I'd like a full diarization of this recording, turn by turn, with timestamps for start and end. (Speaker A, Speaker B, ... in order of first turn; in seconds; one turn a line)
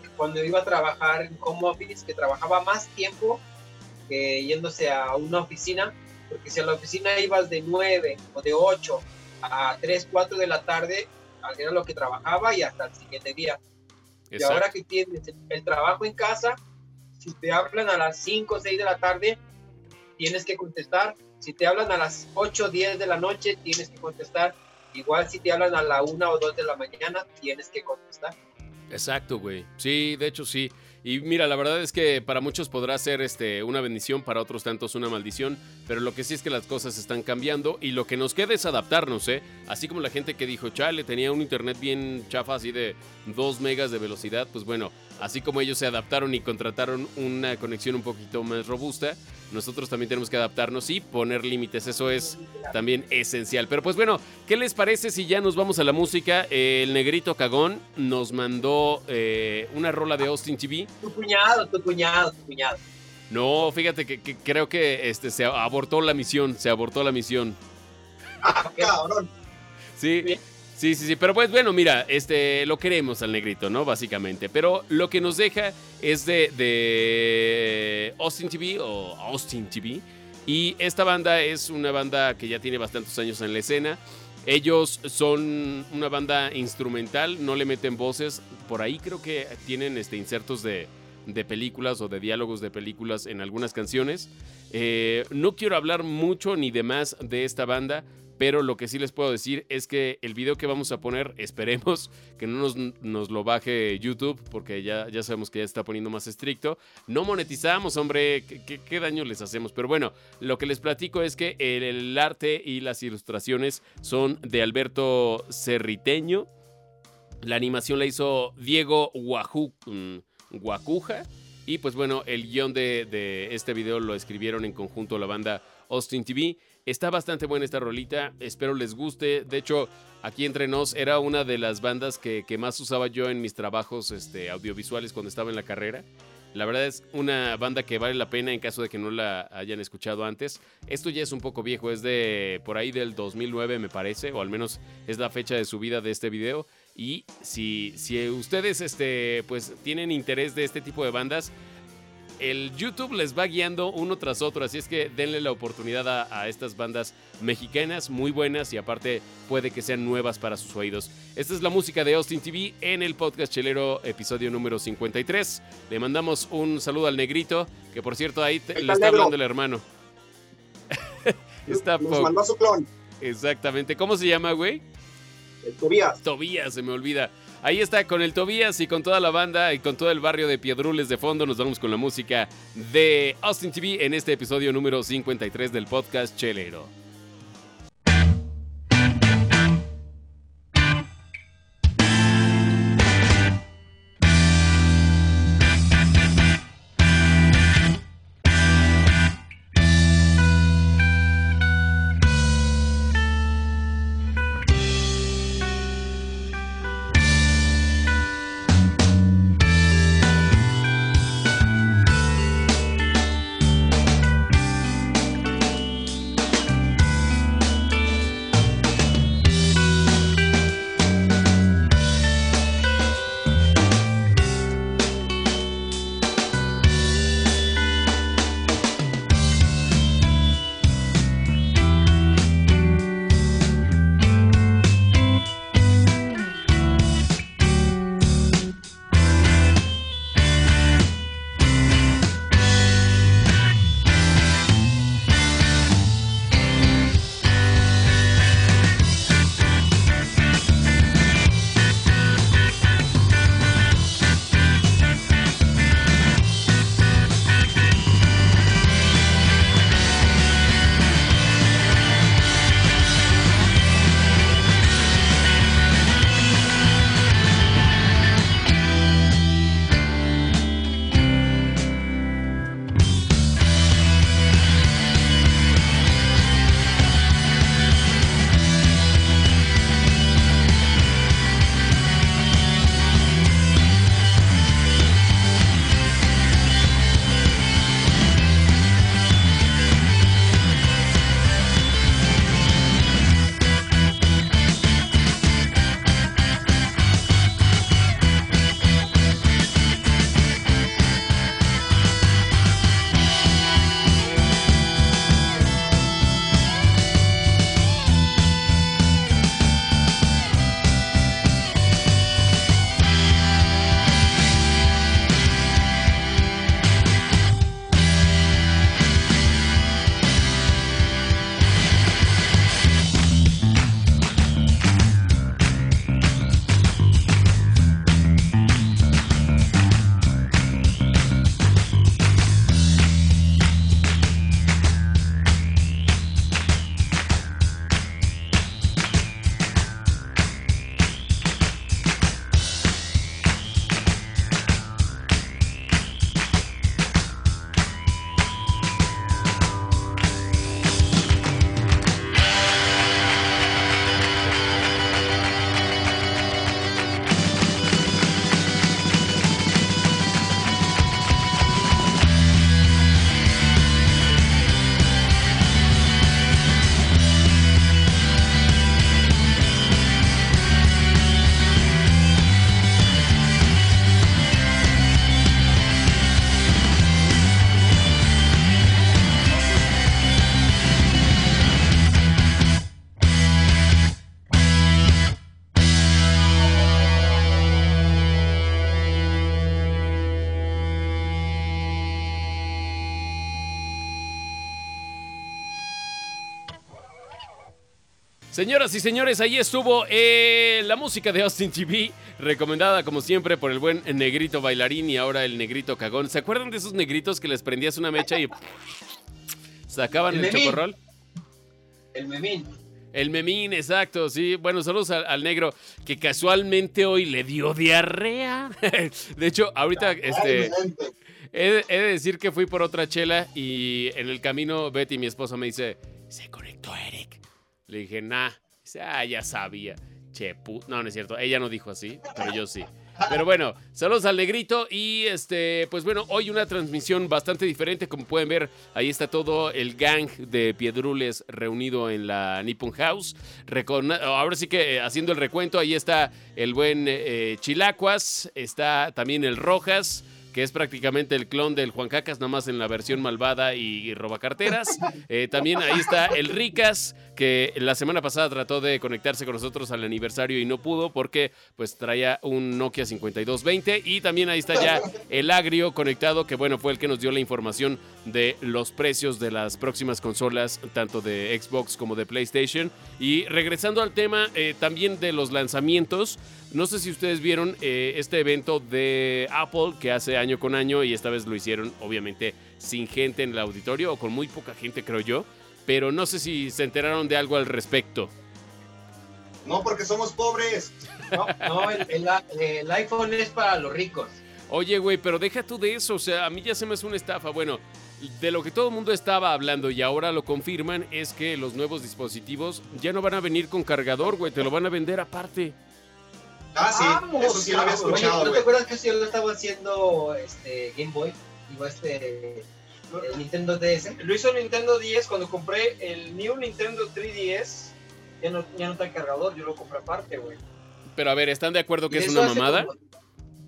Speaker A: 0.2-3.4
Speaker A: 4.1-13.6
Speaker B: 14.3-14.7
Speaker A: 14.4-16.6
Speaker A: 17.2-19.4
Speaker A: 20.2-28.4
Speaker B: 28.9-60.9
Speaker A: 52.4-52.7
Speaker A: 61.0-62.8
Speaker B: 63.3-67.6
Speaker C: 68.4-69.3
Speaker A: 68.5-68.9
Speaker B: 70.0-116.5
Speaker B: 117.4-151.5
Speaker B: 152.4-169.8
Speaker C: 168.8-169.3
Speaker B: 171.2-172.3
Speaker C: 171.7-172.9
Speaker B: 173.2-174.8
Speaker C: 175.6-176.2
Speaker B: 176.2-186.9
Speaker B: 398.5-408.7
Speaker B: 409.9-411.0
Speaker A: 410.3-410.8
Speaker A: 412.1-412.7
Speaker B: 413.1-420.8
Speaker C: 420.2-421.1
Speaker B: 421.5-488.3
Speaker C: 489.6-491.0
Speaker A: 491.5-494.4
Speaker B: 494.7-505.8
Speaker C: 506.7-508.7
Speaker A: 506.9-512.7
Speaker D: 506.9-508.5
Speaker A: 513.2-514.2
Speaker D: 514.2-520.6
Speaker B: 521.2-522.9
Speaker A: 522.1-523.0